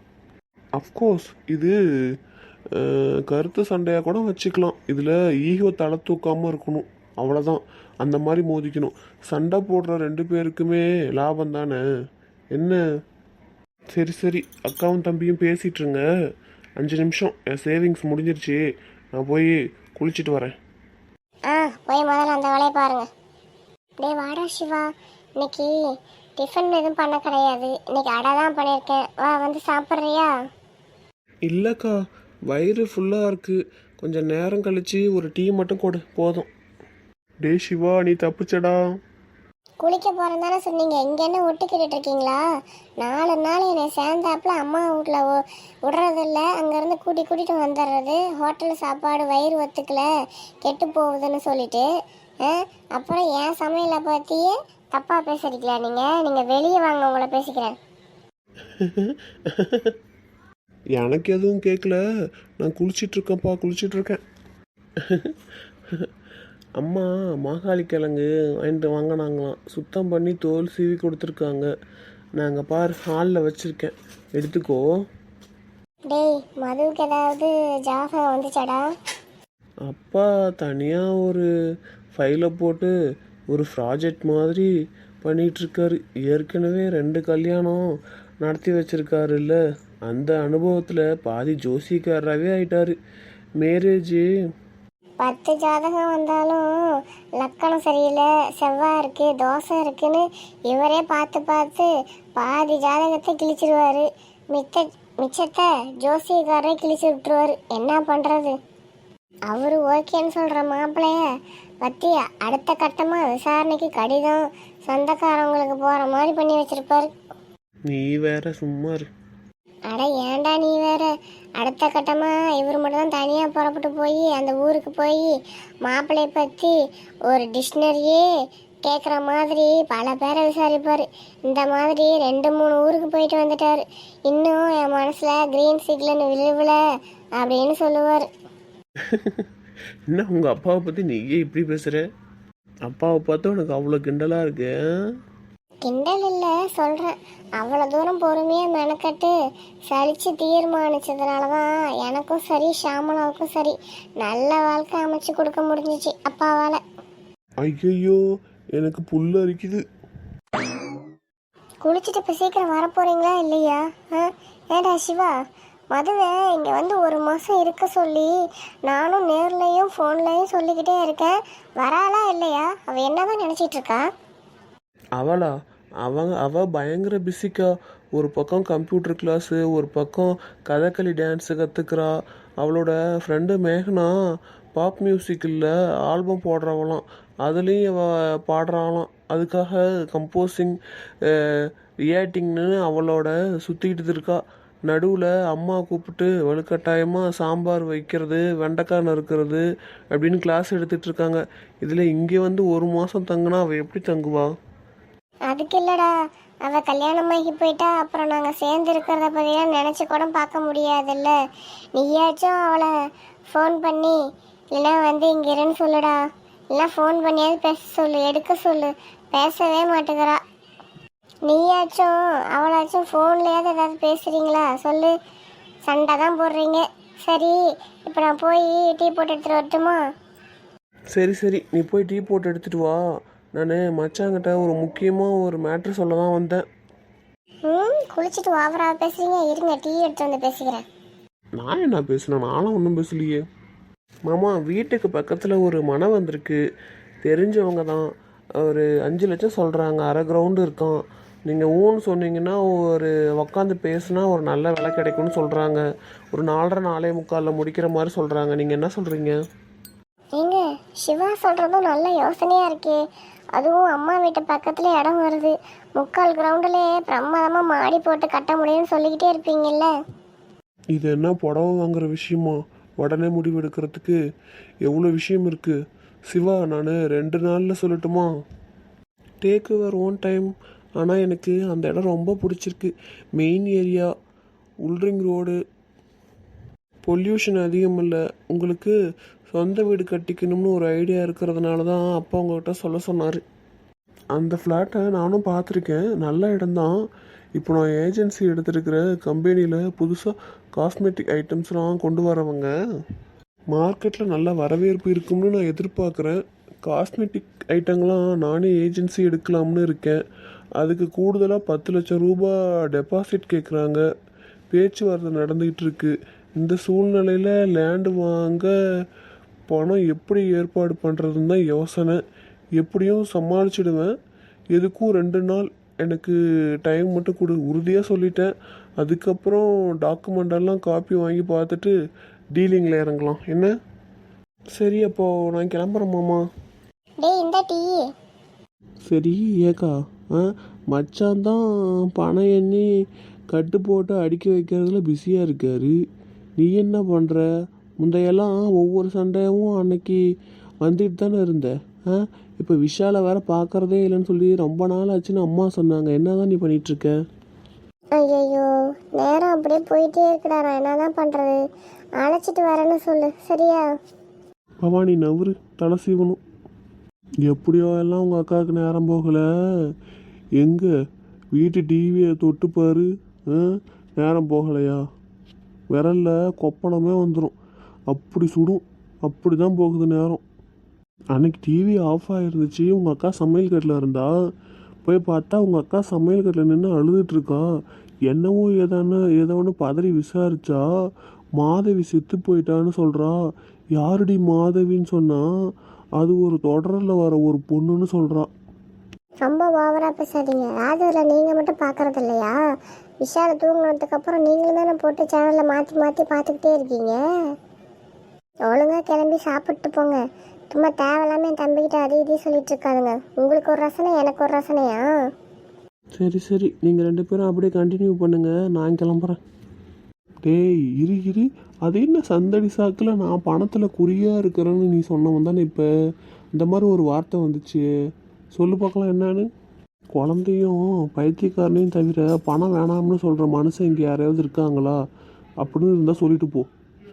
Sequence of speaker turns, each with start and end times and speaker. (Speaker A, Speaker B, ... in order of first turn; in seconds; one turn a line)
Speaker A: 0.8-1.8
Speaker A: 2.8-11.8
Speaker A: 14.0-16.0
Speaker A: 16.8-18.6
Speaker A: 19.1-20.5
Speaker B: 21.5-23.1
Speaker B: 24.0-24.9
Speaker B: 25.4-25.7
Speaker B: 26.4-30.3
Speaker A: 31.5-32.0
Speaker A: 32.5-36.5
Speaker A: 37.4-38.8
Speaker B: 39.8-42.4
Speaker B: 43.0-50.1
Speaker B: 50.6-51.9
Speaker B: 52.4-57.8
Speaker A: 58.8-59.9
Speaker A: 61.0-62.0
Speaker A: 62.6-64.2
Speaker A: 65.0-65.3
Speaker A: 66.8-71.7
Speaker A: 72.4-74.8
Speaker B: 76.1-78.8
Speaker A: 79.9-81.5
Speaker A: 82.1-82.9
Speaker A: 83.5-84.7
Speaker A: 85.2-87.8
Speaker A: 88.4-89.6
Speaker A: 90.1-93.0
Speaker A: 93.6-94.3
Speaker B: 95.2-96.7
Speaker B: 97.4-108.5
Speaker B: 109.5-111.2
Speaker B: 111.8-117.1
Speaker A: 117.9-119.0
Speaker B: 119.9-121.1
Speaker B: 121.6-125.2
Speaker B: 125.9-126.7
Speaker B: 127.3-128.2
Speaker B: 128.9-136.8
Speaker B: 137.4-138.2
Speaker A: 139.1-139.5
Speaker A: 140.1-142.0
Speaker A: 142.9-144.7
Speaker B: 145.9-149.3
Speaker B: 149.9-156.8
Speaker A: 157.6-158.2
Speaker A: 158.8-159.8
Speaker B: 161.8-165.3
Speaker B: 165.9-168.3
Speaker B: 168.9-174.0
Speaker A: 175.2-175.5
Speaker A: 176.0-184.1
Speaker A: 184.8-190.8
Speaker A: 192.1-204.5
Speaker B: 205.5-206.1
Speaker B: 206.7-211.3
Speaker B: 212.0-212.9
Speaker B: 213.5-214.2
Speaker B: 214.7-216.2
Speaker B: 216.8-220.4
Speaker B: 221.5-225.1
Speaker B: 225.9-230.0
Speaker A: 231.1-233.0
Speaker A: 233.5-236.6
Speaker B: 237.7-240.8
Speaker A: 241.6-243.4
Speaker A: 244.3-246.6
Speaker A: 247.2-248.0
Speaker A: 248.6-255.8
Speaker A: 256.3-259.4
Speaker B: 260.4-263.0
Speaker B: 263.6-269.9
Speaker A: 270.9-274.2
Speaker A: 274.8-275.8
Speaker A: 276.3-278.3
Speaker A: 279.4-284.1
Speaker A: 284.9-285.6
Speaker A: 287.1-288.9
Speaker A: 289.5-293.4
Speaker A: 294.4-296.9
Speaker A: 297.6-302.7
Speaker A: 303.7-310.2
Speaker A: 310.8-314.0
Speaker A: 314.7-318.7
Speaker A: 319.7-322.2
Speaker A: 322.8-324.1
Speaker A: 324.7-331.9
Speaker A: 332.6-333.7
Speaker A: 334.8-336.4
Speaker B: 337.2-338.0
Speaker A: 339.1-341.6
Speaker A: 342.1-342.9
Speaker A: 343.5-345.9
Speaker A: 346.6-347.4
Speaker A: 348.0-350.2
Speaker A: 350.8-357.1
Speaker B: 358.1-358.6
Speaker B: 359.2-361.6
Speaker B: 362.2-363.9
Speaker A: 364.8-366.4
Speaker A: 367.4-369.4
Speaker A: 370.6-370.9
Speaker A: 371.5-375.0
Speaker A: 375.9-377.5
Speaker A: 378.1-380.4
Speaker A: 381.4-384.3
Speaker A: 385.1-387.6
Speaker A: 388.3-390.9
Speaker A: 391.6-393.4
Speaker A: 394.0-395.4
Speaker A: 396.2-398.5
Speaker B: 399.4-402.6
Speaker B: 403.2-407.2
Speaker B: 408.7-410.2
Speaker B: 410.7-415.1
Speaker A: 416.2-419.4
Speaker A: 420.4-425.9
Speaker A: 426.6-427.9
Speaker A: 428.6-429.5
Speaker A: 430.1-435.0
Speaker A: 435.6-436.7